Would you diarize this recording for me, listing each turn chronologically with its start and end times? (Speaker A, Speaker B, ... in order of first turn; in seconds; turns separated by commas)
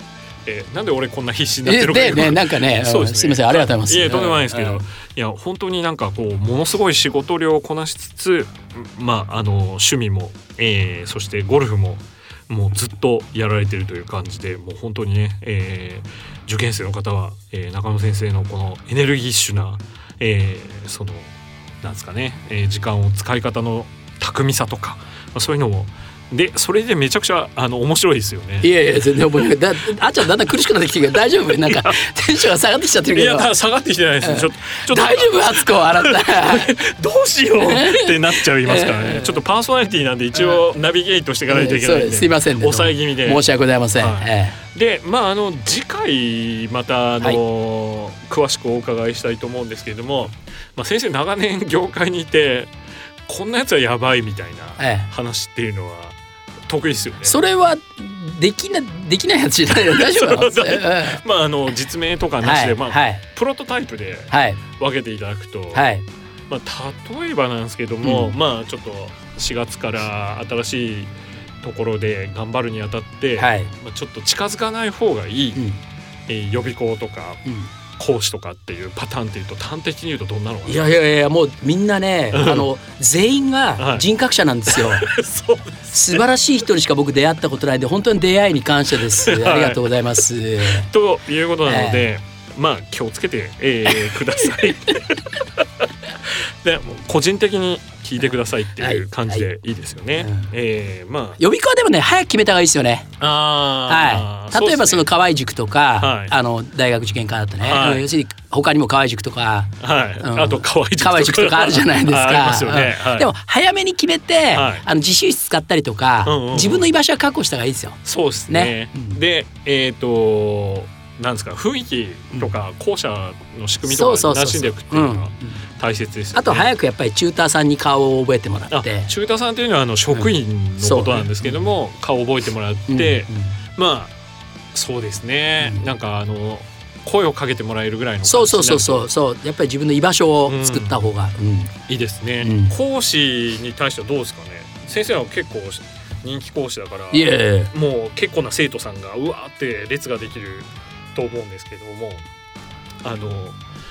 Speaker A: 0.5-28.7, Speaker B: 1.6-4.8, Speaker B: 28.6-33.5, Speaker A: 31.5-32.0, Speaker A: 33.1-43.5, Speaker B: 34.2-36.7, Speaker B: 37.6-39.4, Speaker B: 41.5-44.6, Speaker A: 44.0-52.7, Speaker A: 53.3-56.2, Speaker B: 54.8-55.1, Speaker A: 56.7-57.4, Speaker B: 57.2-61.2, Speaker A: 59.9-65.9, Speaker B: 62.4-63.2, Speaker B: 64.3-64.6, Speaker B: 65.7-66.0, Speaker A: 66.5-75.7, Speaker B: 68.0-68.4, Speaker B: 73.4-73.7, Speaker A: 76.3-77.4, Speaker A: 78.0-80.9, Speaker B: 80.7-85.1, Speaker A: 82.3-82.7, Speaker A: 83.8-84.1, Speaker A: 84.7-86.2, Speaker B: 85.9-90.9, Speaker A: 89.1-89.9, Speaker A: 90.7-101.4, Speaker B: 91.7-92.1, Speaker B: 94.0-94.9, Speaker B: 98.2-99.5, Speaker B: 100.2-100.5, Speaker B: 101.4-103.1, Speaker A: 103.2-105.1, Speaker B: 103.9-119.2, Speaker A: 106.0-106.3, Speaker A: 107.6-108.1, Speaker A: 109.8-113.3, Speaker A: 114.5-114.8, Speaker A: 116.2-116.9, Speaker A: 118.0-126.7, Speaker B: 123.8-125.6, Speaker B: 126.3-129.1, Speaker A: 128.7-134.1, Speaker B: 130.8-131.7, Speaker B: 132.9-133.4, Speaker A: 134.7-139.1, Speaker B: 138.2-141.7, Speaker A: 140.5-141.0, Speaker A: 141.9-152.3, Speaker B: 142.4-142.8, Speaker B: 147.1-147.7, Speaker A: 153.0-153.6